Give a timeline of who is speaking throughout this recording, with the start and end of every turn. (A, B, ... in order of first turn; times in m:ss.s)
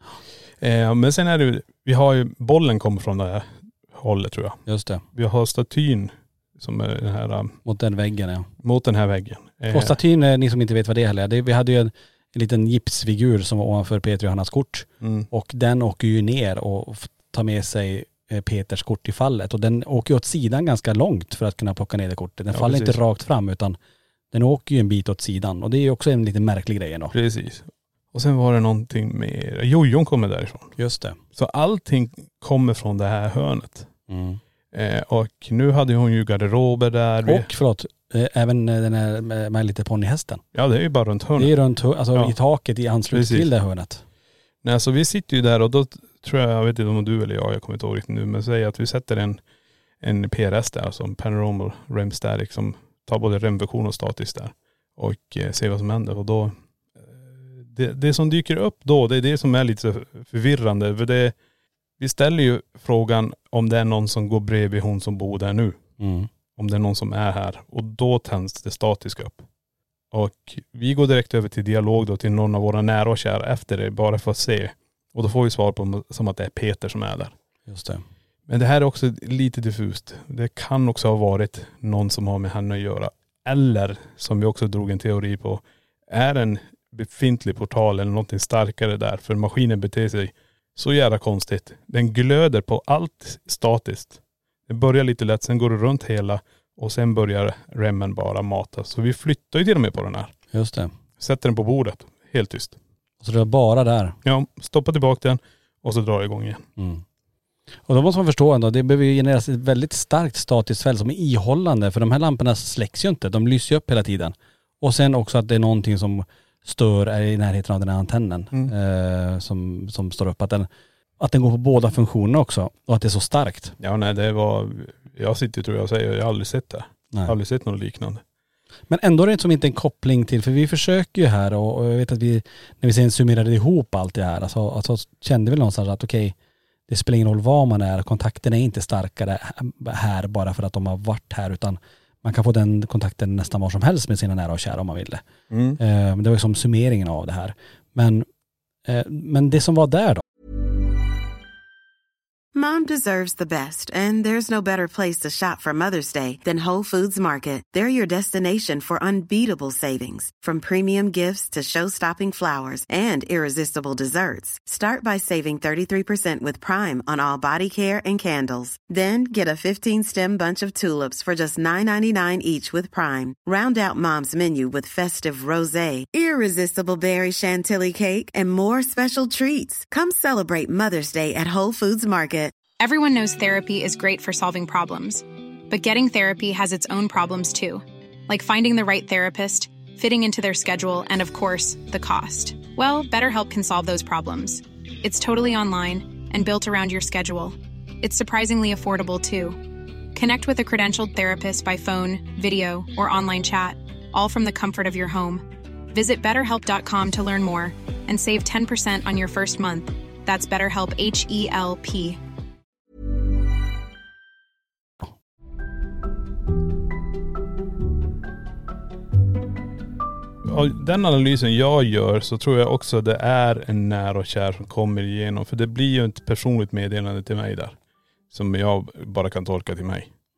0:00.6-0:04.6 A
0:04.7-0:05.0 B
0:05.1-0:07.6 A
0:07.6-0:08.5 B
0:08.6-0:10.0 A
0:09.7-0:23.8 B
0:15.0-0:15.3 A
0:22.5-0:23.0 A
0:24.3-0:27.1 B
0:27.1-0:30.8 A
0:30.8-0:31.2 B
0:31.4-0:33.9 A
0:34.1-0:34.4 B
0:34.7-0:37.5 A
0:37.2-0:40.4 B
0:40.5-0:41.5 A
0:41.4-0:44.0 B
0:43.1-0:43.5 A
0:44.6-0:49.4 A
0:50.0-1:01.4 A
1:02.0-1:05.8 A
1:06.0-1:06.3 B
1:06.6-1:09.4 A
1:10.1-1:17.4 A
1:17.7-1:18.0 B
1:18.5-1:40.3 A
1:40.5-1:40.9 B
1:41.2-1:42.8 A
1:43.2-1:44.2 B
1:44.2-1:46.6 A
1:46.8-1:47.0 B
1:47.9-2:00.7 B
2:01.2-2:03.8 B
2:03.8-2:08.2 A
2:08.9-2:16.3 B
2:16.9-2:25.2 B
2:25.5-2:25.8 A
2:25.8-2:28.3 B
2:28.9-2:30.2 B
2:32.5-3:02.6 C
3:02.8-3:19.6 D
3:20.1-3:32.2 D
3:40.4-3:47.8 A
3:48.3-3:50.1 A